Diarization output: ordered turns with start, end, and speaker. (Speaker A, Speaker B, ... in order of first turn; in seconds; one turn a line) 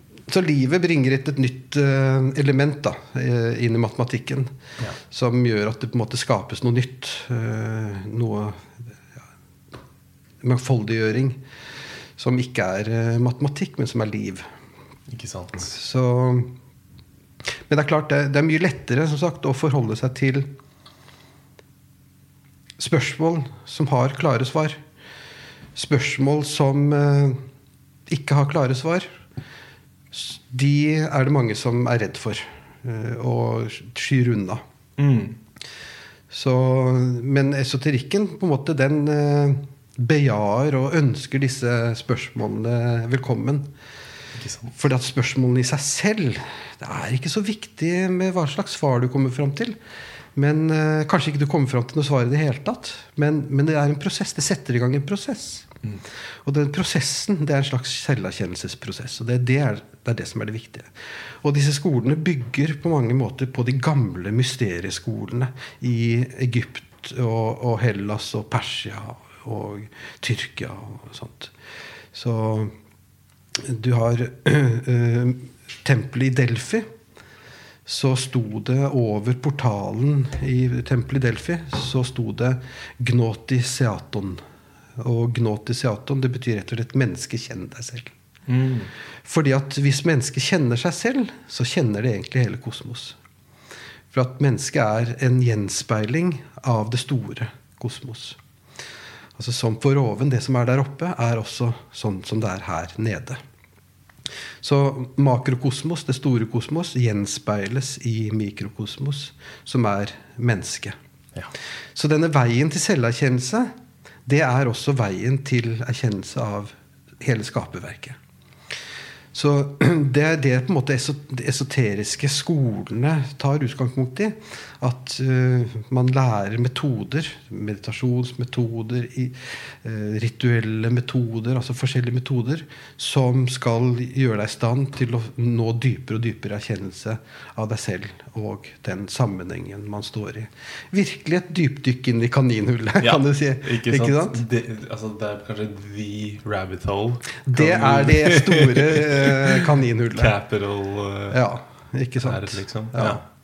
Speaker A: 0.3-8.7
Speaker A: 10.4-11.4
Speaker A: 12.2-14.5
Speaker B: 15.1-15.7
Speaker A: 15.6-16.5
Speaker A: 17.7-20.5
Speaker A: 22.8-24.8
Speaker A: 25.7-27.4
Speaker A: 28.1-29.1
Speaker A: 30.1-34.6
Speaker B: 35.0-35.4
Speaker A: 36.3-43.7
Speaker B: 44.4-44.7
Speaker A: 44.7-49.8
Speaker A: 50.3-55.7
Speaker A: 56.4-60.9
Speaker A: 61.4-71.5
Speaker A: 72.1-72.7
Speaker A: 73.5-76.9
Speaker A: 77.8-84.4
Speaker A: 85.0-88.1
Speaker B: 88.5-88.9
Speaker A: 89.2-93.2
Speaker A: 94.1-98.4
Speaker A: 99.3-103.4
Speaker A: 104.6-111.0
Speaker A: 111.9-113.7
Speaker A: 114.2-118.2
Speaker A: 119.3-144.4
Speaker B: 143.0-151.4
Speaker A: 147.4-150.3
Speaker A: 151.3-153.2
Speaker B: 152.2-153.2